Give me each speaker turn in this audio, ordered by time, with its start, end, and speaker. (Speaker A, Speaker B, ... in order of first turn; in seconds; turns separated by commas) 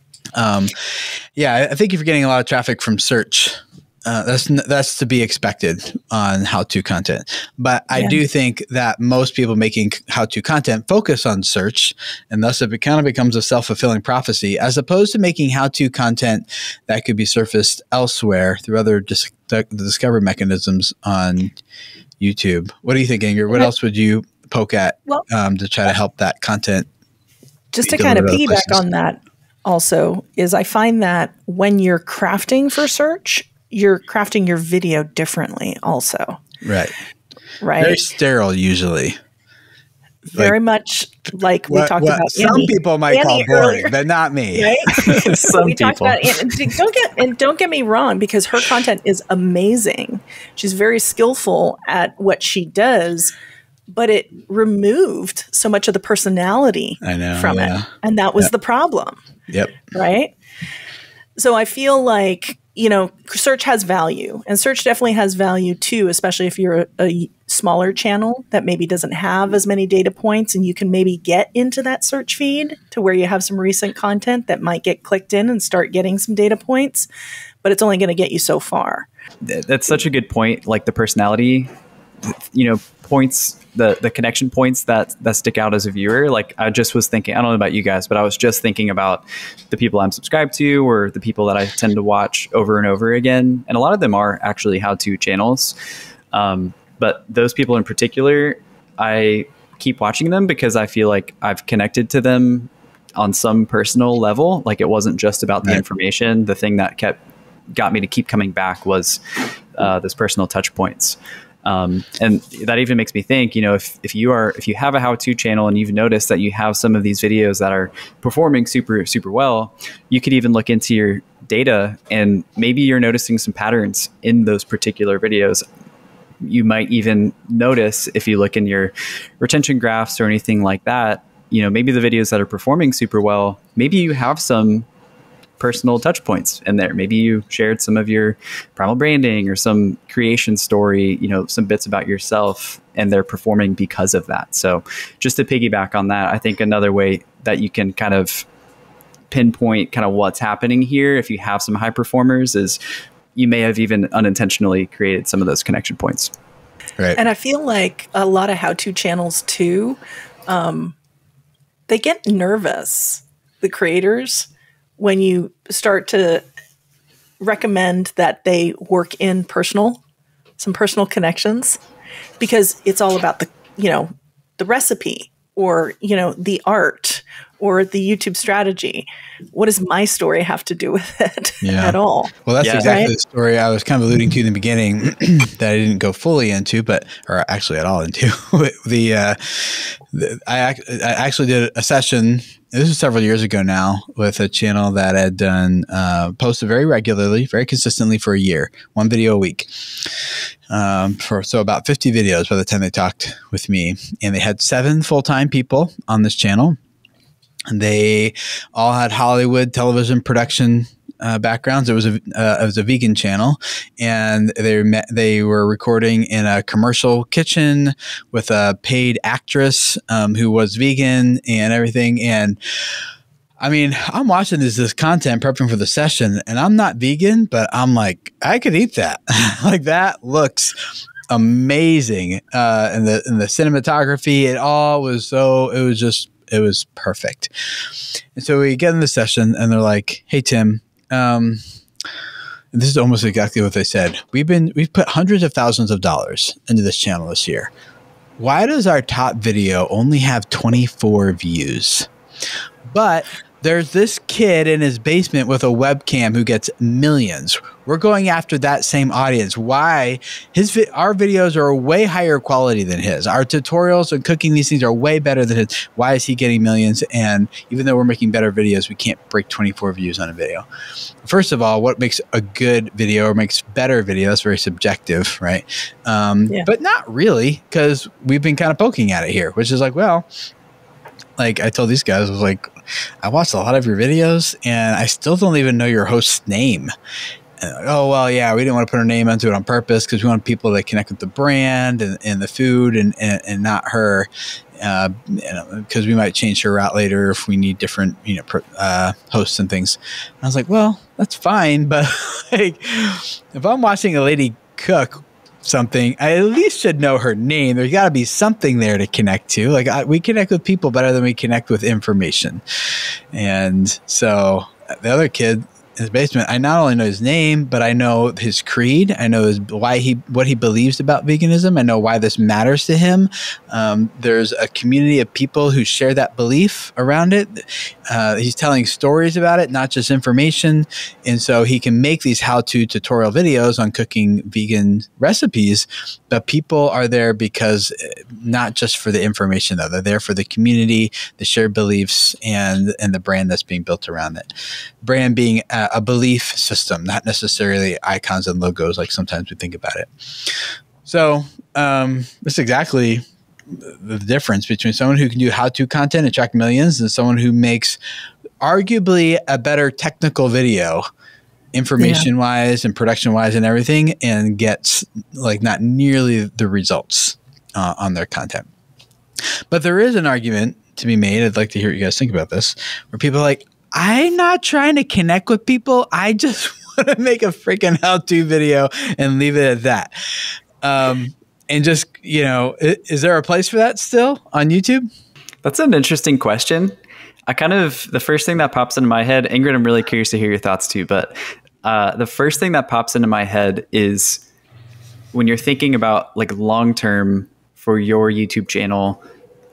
Speaker A: 0.3-21.5, Speaker B: 7.9-8.2, Speaker A: 22.2-26.9, Speaker B: 27.7-36.4, Speaker A: 27.8-28.8, Speaker A: 36.6-36.9, Speaker B: 37.6-38.0, Speaker A: 37.8-39.2, Speaker B: 40.2-44.0, Speaker A: 41.7-45.2, Speaker B: 44.5-53.3, Speaker C: 45.0-46.1, Speaker B: 53.9-59.2, Speaker A: 57.0-58.5, Speaker A: 59.5-59.9, Speaker B: 59.9-60.3, Speaker B: 61.4-77.1, Speaker B: 77.6-79.1, Speaker C: 79.5-81.7, Speaker C: 82.3-95.7, Speaker C: 96.3-107.2, Speaker C: 107.7-109.2, Speaker C: 109.7-125.6, Speaker C: 126.4-134.8, Speaker C: 135.6-148.4, Speaker C: 149.3-152.8, Speaker C: 153.3-156.3, Speaker B: 157.2-160.9, Speaker B: 161.9-166.4, Speaker B: 167.4-170.0, Speaker B: 170.6-171.8, Speaker B: 172.4-183.1, Speaker A: 181.6-200.1, Speaker C: 182.6-183.0, Speaker A: 200.7-206.8, Speaker A: 207.7-222.6, Speaker A: 223.6-230.8, Speaker A: 231.3-237.5, Speaker A: 238.3-241.6, Speaker A: 242.7-247.7, Speaker A: 248.4-252.1, Speaker A: 252.9-270.6, Speaker A: 271.2-280.3, Speaker A: 281.4-282.7, Speaker A: 283.2-286.9, Speaker A: 287.6-312.6, Speaker A: 313.3-344.5, Speaker A: 345.0-358.0, Speaker A: 358.6-361.1, Speaker A: 361.7-368.7, Speaker B: 362.0-362.3, Speaker A: 369.7-380.1, Speaker A: 380.8-385.1, Speaker C: 385.6-386.9, Speaker C: 387.5-394.4, Speaker C: 395.3-399.2